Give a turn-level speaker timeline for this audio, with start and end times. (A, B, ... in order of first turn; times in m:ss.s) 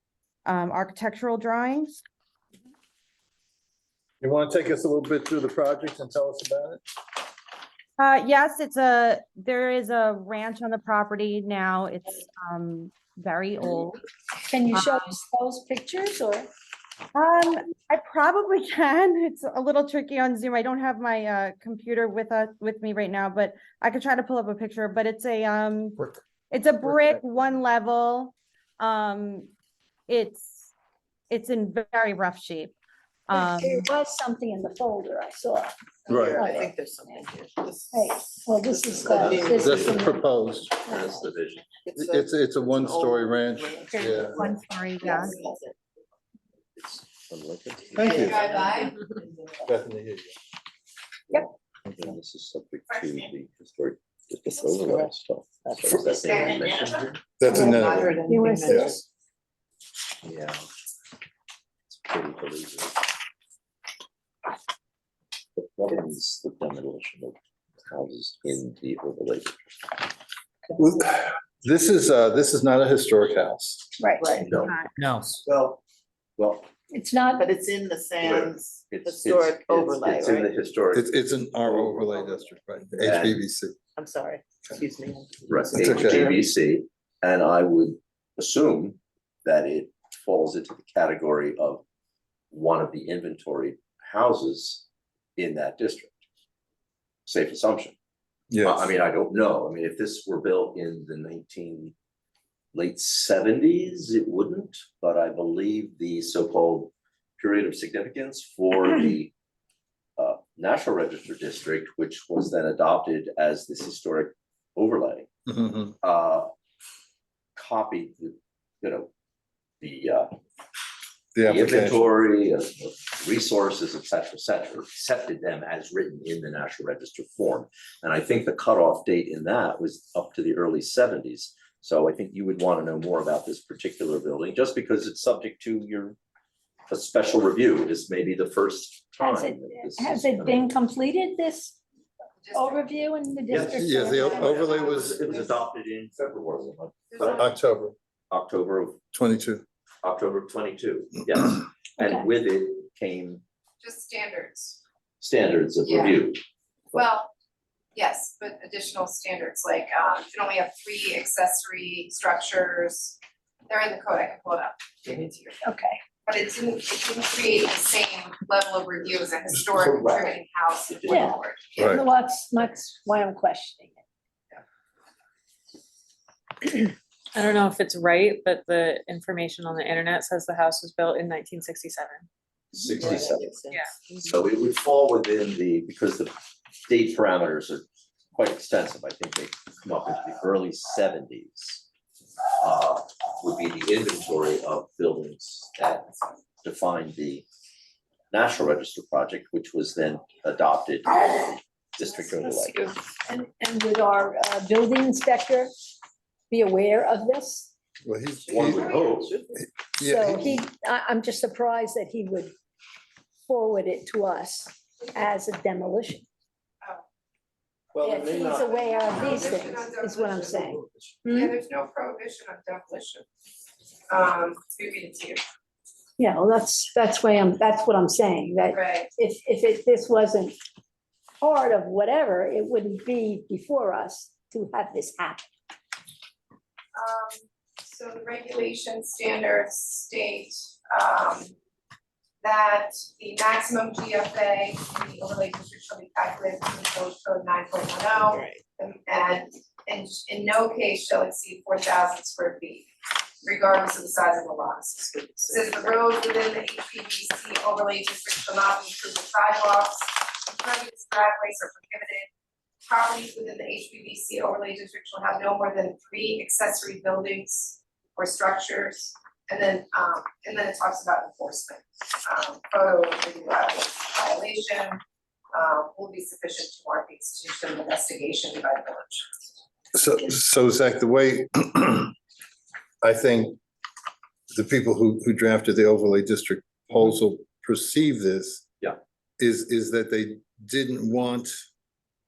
0:00.4-0:02.0 A
0:04.2-0:06.8 B
0:08.0-0:14.0 A
0:14.4-0:16.5 C
0:14.7-0:15.0 A
0:17.1-0:26.0 A
0:26.5-0:29.5 A
0:26.8-0:27.2 B
0:30.1-0:30.7 A
0:31.3-0:32.8 A
0:33.3-0:33.9 A
0:33.3-0:36.7 C
0:36.1-0:40.1 D
0:36.1-0:36.5 B
0:37.9-0:40.2 C
0:39.0-0:40.0 E
0:39.5-0:40.7 B
0:40.7-0:41.6 E
0:41.8-0:45.8 D
0:42.0-0:44.5 B
0:43.9-0:45.4 A
0:46.8-0:48.5 E
0:47.9-0:48.6 B
0:48.0-0:49.0 F
0:48.1-0:49.2 D
0:49.6-0:50.3 B
0:51.3-0:57.2 E
0:54.5-0:55.1 D
0:55.7-0:59.0 D
0:56.3-0:57.0 F
0:57.4-0:58.2 B
0:57.5-0:59.0 C
0:57.8-0:58.2 E
0:58.7-0:59.0 B
1:00.2-1:00.6 E
1:01.9-1:03.0 E
1:05.6-1:09.5 E
1:10.8-1:13.9 B
1:14.0-1:14.5 C
1:14.2-1:14.6 D
1:14.3-1:14.8 E
1:15.3-1:15.8 E
1:16.4-1:16.7 E
1:16.9-1:17.5 C
1:17.3-1:20.6 D
1:18.2-1:21.1 E
1:20.9-1:23.8 B
1:23.0-1:23.4 E
1:24.0-1:26.4 D
1:25.5-1:31.8 E
1:25.8-1:26.3 B
1:32.5-1:34.8 E
1:35.4-1:36.2 E
1:37.3-1:38.0 E
1:38.5-1:38.8 B
1:38.6-1:41.9 E
1:42.7-1:49.3 E
1:50.2-1:55.3 E
1:55.5-1:56.0 B
1:56.0-1:56.5 E
1:57.6-1:59.1 E
1:59.8-2:00.3 E
2:01.4-2:02.1 B
2:01.4-2:16.2 E
2:16.9-2:20.7 E
2:19.2-2:21.8 C
2:22.4-2:22.9 F
2:22.5-2:24.7 C
2:23.5-2:27.5 E
2:23.8-2:25.3 B
2:24.1-2:25.6 F
2:27.1-2:27.5 F
2:27.3-2:28.0 B
2:28.3-2:29.0 E
2:29.1-2:29.6 B
2:30.0-2:33.4 E
2:32.0-2:32.3 C
2:33.8-2:34.8 F
2:35.2-2:36.4 E
2:35.8-2:36.3 F
2:36.9-2:37.3 F
2:38.0-2:52.0 F
2:45.6-2:46.0 C
2:49.8-2:50.4 E
2:50.9-2:51.3 E
2:51.1-2:54.0 C
2:51.8-2:52.0 B
2:57.4-3:02.3 G
3:02.7-3:03.5 E
3:02.8-3:04.4 D
3:03.7-3:04.0 G
3:04.2-3:06.3 E
3:06.8-3:11.8 E
3:12.6-3:17.5 E
3:18.3-3:22.9 E
3:23.1-3:25.7 C
3:26.5-3:27.7 C
3:28.0-3:28.9 B
3:28.5-3:29.4 E
3:28.6-3:29.2 F
3:29.6-3:30.6 B
3:30.0-3:32.6 C
3:33.5-3:36.2 C
3:38.0-3:38.7 E
3:38.0-3:40.8 C
3:38.6-3:43.2 F
3:44.1-3:45.4 F
3:46.2-3:50.6 C
3:48.7-3:49.1 F
3:51.4-3:55.5 C
3:56.9-4:01.5 F
4:02.4-4:12.9 F
4:08.2-4:08.6 D
4:13.4-4:22.3 F
4:15.5-4:15.8 D
4:22.8-4:35.0 F
4:35.5-4:39.4 F
4:40.0-4:42.1 B
4:43.0-4:43.6 B
4:44.5-4:48.6 B
4:49.4-4:51.5 B